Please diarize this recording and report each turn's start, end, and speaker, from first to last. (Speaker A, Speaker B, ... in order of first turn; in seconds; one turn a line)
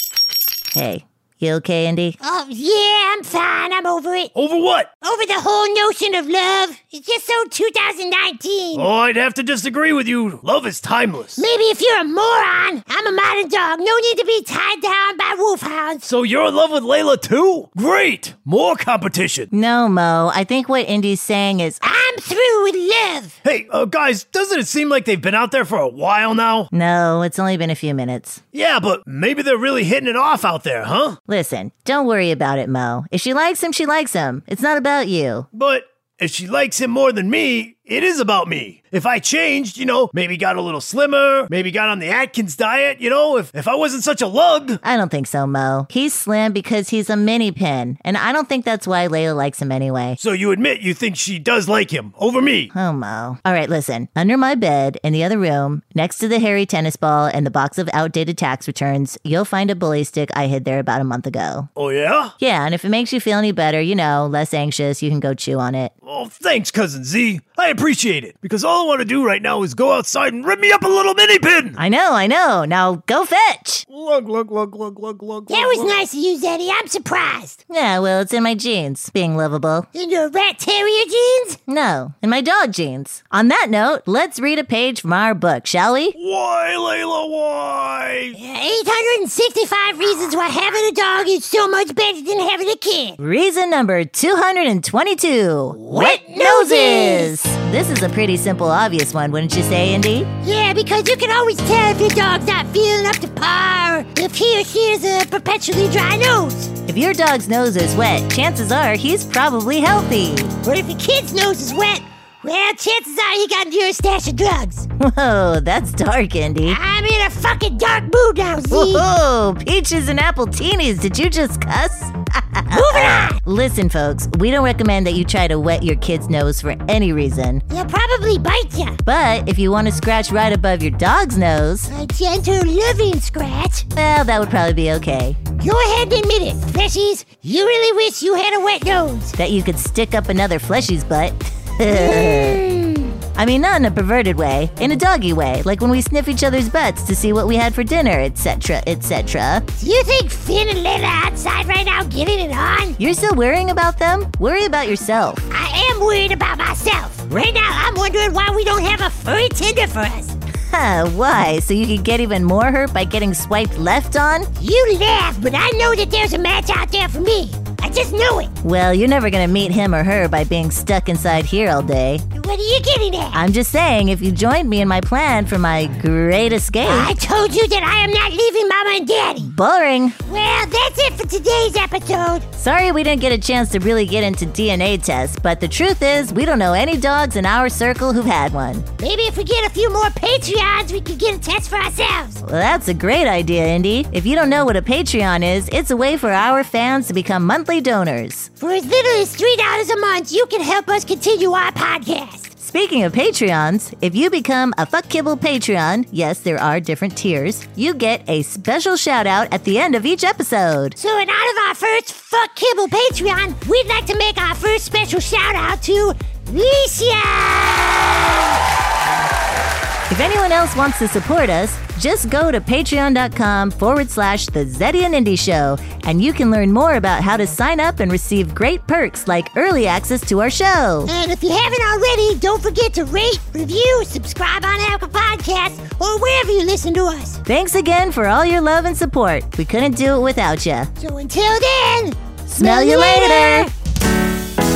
Speaker A: 0.7-2.2
Speaker B: 2.2-4.3
Speaker C: 4.3-4.9
Speaker B: 5.0-8.9
Speaker C: 8.7-11.4
Speaker B: 11.4-16.1
Speaker C: 16.1-19.5
Speaker A: 19.5-21.8
Speaker B: 21.8-23.4
Speaker C: 23.4-26.7
Speaker A: 26.7-28.4
Speaker C: 28.5-31.2
Speaker A: 31.3-35.5
Speaker C: 35.5-44.8
Speaker A: 44.8-50.2
Speaker C: 50.2-52.7
Speaker A: 52.7-61.7
Speaker C: 61.8-62.3
Speaker A: 62.4-65.9
Speaker C: 66.0-71.8
Speaker A: 71.8-73.8
Speaker C: 73.9-76.0
Speaker B: 75.5-77.6
Speaker A: 77.7-79.9
Speaker B: 79.9-81.6
Speaker A: 81.7-86.2
Speaker C: 86.1-88.4
Speaker B: 88.4-93.2
Speaker A: 93.2-100.3
Speaker B: 95.8-97.4
Speaker B: 100.4-106.7
Speaker A: 106.9-110.5
Speaker B: 110.6-114.9
Speaker A: 115.0-116.8
Speaker B: 116.7-119.1
Speaker A: 118.7-127.6
Speaker B: 122.7-123.4
Speaker B: 127.7-129.0
Speaker A: 129.1-131.9
Speaker B: 131.9-133.9
Speaker A: 133.9-135.4
Speaker B: 135.6-139.3
Speaker A: 139.4-142.6
Speaker B: 141.9-143.2
Speaker A: 143.4-149.7
Speaker B: 149.8-153.0
Speaker A: 153.0-155.5
Speaker B: 155.5-160.4
Speaker A: 160.7-164.5
Speaker B: 164.6-168.5
Speaker A: 168.6-172.2
Speaker B: 172.3-173.4
Speaker A: 173.3-177.2
Speaker B: 176.8-179.5
Speaker A: 179.4-180.2
Speaker B: 180.3-182.5
Speaker A: 182.6-188.9
Speaker B: 189.0-192.4
Speaker A: 192.4-198.5
Speaker B: 198.6-202.5
Speaker A: 202.6-211.0
Speaker B: 211.0-218.6
Speaker A: 220.1-231.1
Speaker B: 231.1-237.4
Speaker A: 237.5-240.9
Speaker B: 241.0-243.7
Speaker A: 242.5-243.7